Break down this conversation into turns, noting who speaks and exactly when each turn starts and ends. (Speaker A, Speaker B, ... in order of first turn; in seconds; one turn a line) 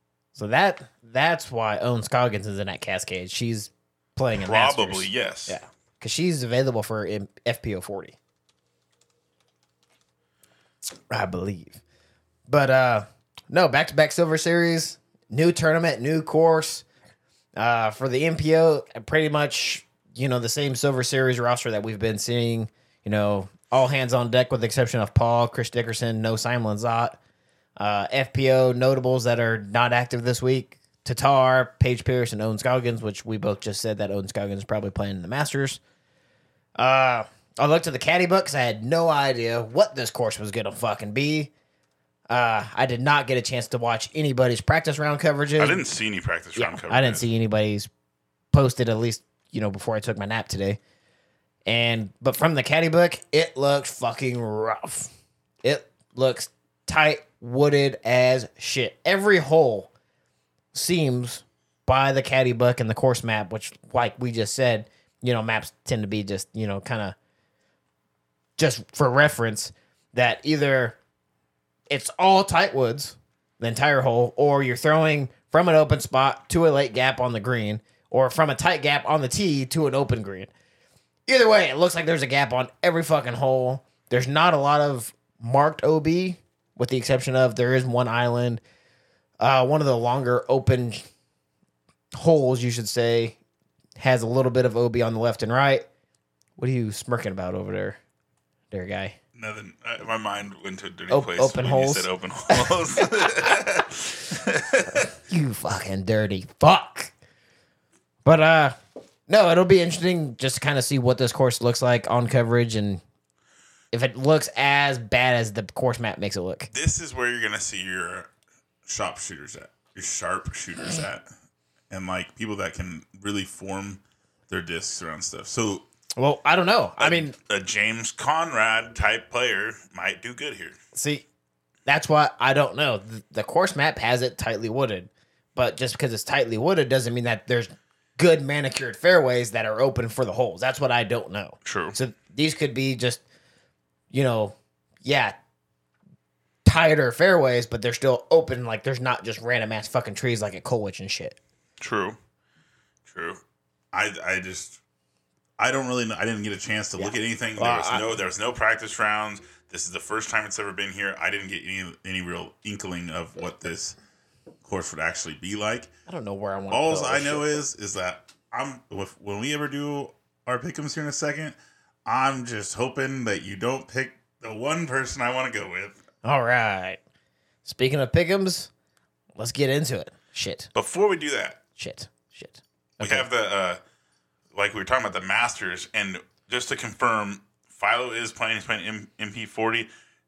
Speaker A: 0.3-8.2
Speaker B: 4.3-5.6
Speaker A: 11.1-11.8
Speaker A: 12.5-16.8
Speaker A: 17.6-27.2
Speaker A: 27.8-35.8
Speaker A: 36.8-41.5
Speaker A: 42.3-45.8
Speaker B: 45.6-47.3
Speaker A: 46.5-47.9
Speaker A: 48.5-50.8
Speaker A: 51.6-55.1
Speaker A: 55.6-59.9
Speaker A: 60.7-67.2
Speaker A: 68.6-71.0
Speaker A: 71.9-80.5
Speaker A: 81.3-88.6
Speaker A: 89.4-91.0
Speaker A: 92.1-93.4
Speaker A: 94.0-95.8
Speaker A: 96.6-98.0
Speaker A: 98.7-99.2
Speaker B: 99.3-105.1
Speaker A: 101.1-103.3
Speaker A: 104.9-107.1
Speaker A: 108.2-108.7
Speaker A: 109.3-113.0
Speaker A: 113.9-116.7
Speaker B: 116.7-118.3
Speaker B: 118.8-121.2
Speaker B: 121.9-125.8
Speaker A: 126.2-127.3
Speaker B: 127.0-130.8
Speaker A: 130.9-131.2
Speaker A: 131.8-143.2
Speaker B: 141.6-141.9
Speaker A: 144.1-145.3
Speaker A: 146.6-151.4
Speaker B: 151.8-152.2
Speaker B: 153.1-153.4
Speaker B: 153.9-154.8
Speaker B: 155.6-164.0
Speaker A: 157.0-158.1
Speaker B: 164.6-165.9
Speaker A: 166.1-167.6
Speaker B: 166.7-171.5
Speaker B: 172.1-176.0
Speaker A: 176.2-177.0
Speaker A: 177.6-178.7
Speaker A: 179.4-180.7
Speaker B: 180.7-181.6
Speaker A: 181.8-183.3
Speaker B: 183.0-183.8
Speaker B: 184.5-189.9